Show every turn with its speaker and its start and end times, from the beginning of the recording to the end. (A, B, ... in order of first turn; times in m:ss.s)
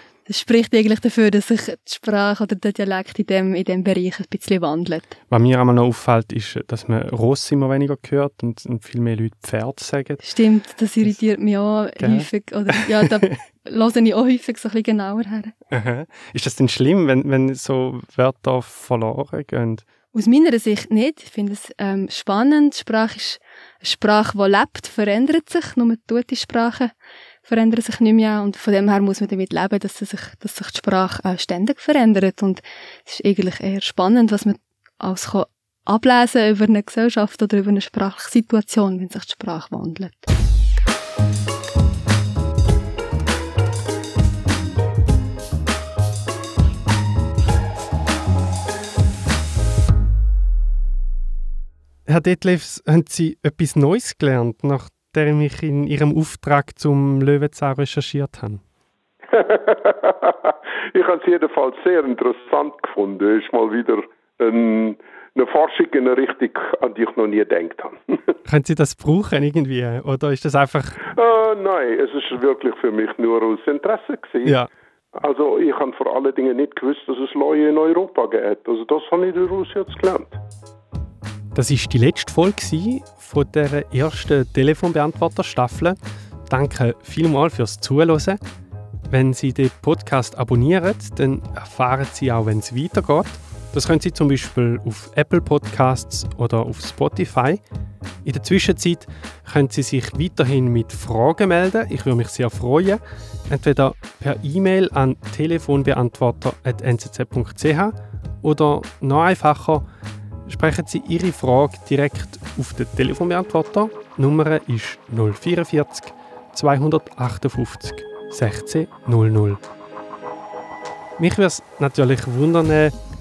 0:00.2-0:05.1 A
0:05.3-0:10.2 B
0:10.2-0:15.5 A
0:12.0-0:13.1 B
0:15.7-0:19.8 B
0:20.1-0:26.9 A
0:27.4-0:40.3 A
0:52.1-0:58.6 B
0:59.3-1:08.0 C
1:08.4-1:11.1 B
1:11.1-1:14.6 C
1:14.4-1:14.7 B
1:15.2-1:20.4 C
1:21.5-1:26.0 B
1:26.5-1:28.4 B
1:29.1-1:37.6 B
1:38.2-1:49.8 B
1:50.5-1:59.6 B
2:01.2-2:02.9 B